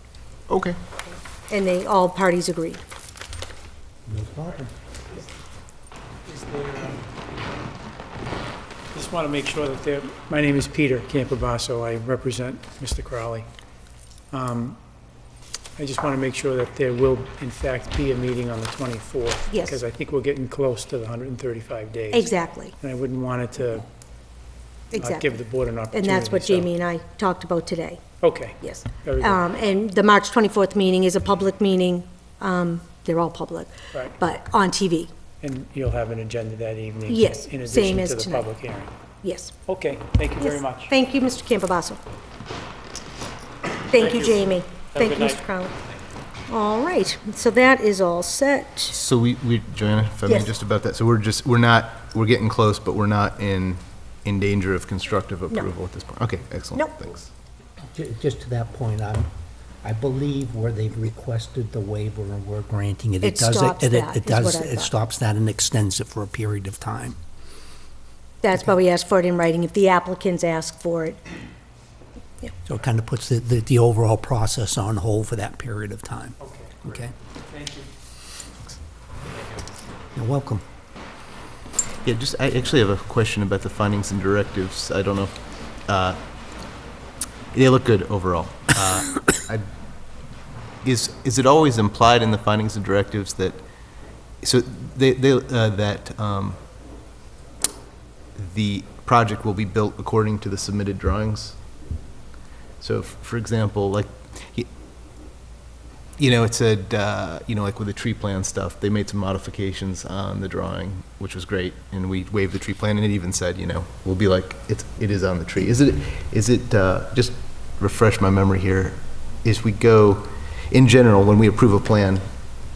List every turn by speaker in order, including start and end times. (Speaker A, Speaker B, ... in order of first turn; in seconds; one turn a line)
Speaker A: 0.5-0.8
Speaker B: 1.5-2.8
Speaker C: 4.1-4.7
Speaker D: 6.3-7.1
Speaker D: 8.9-13.5
Speaker D: 14.3-14.8
Speaker D: 15.8-23.9
Speaker B: 19.5-19.8
Speaker B: 22.1-22.8
Speaker B: 24.9-25.4
Speaker D: 25.0-26.7
Speaker B: 25.9-28.1
Speaker D: 28.2-29.4
Speaker B: 28.6-35.1
Speaker D: 35.4-38.9
Speaker B: 37.1-38.5
Speaker B: 39.2-39.5
Speaker D: 39.7-40.9
Speaker B: 40.4-42.0
Speaker B: 43.9-45.7
Speaker D: 45.0-45.4
Speaker B: 46.5-49.0
Speaker A: 48.9-57.3
Speaker B: 50.3-50.5
Speaker C: 57.9-59.3
Speaker C: 59.8-67.2
Speaker B: 63.2-64.9
Speaker B: 68.4-71.2
Speaker C: 72.7-77.1
Speaker D: 76.4-77.9
Speaker C: 80.2-80.6
Speaker A: 82.0-85.3
Speaker A: 85.9-86.2
Speaker A: 87.5-89.6
Speaker A: 90.8-93.6
Speaker A: 94.4-96.6
Speaker A: 98.4-101.6
Speaker A: 102.8-104.7
Speaker A: 106.2-122.2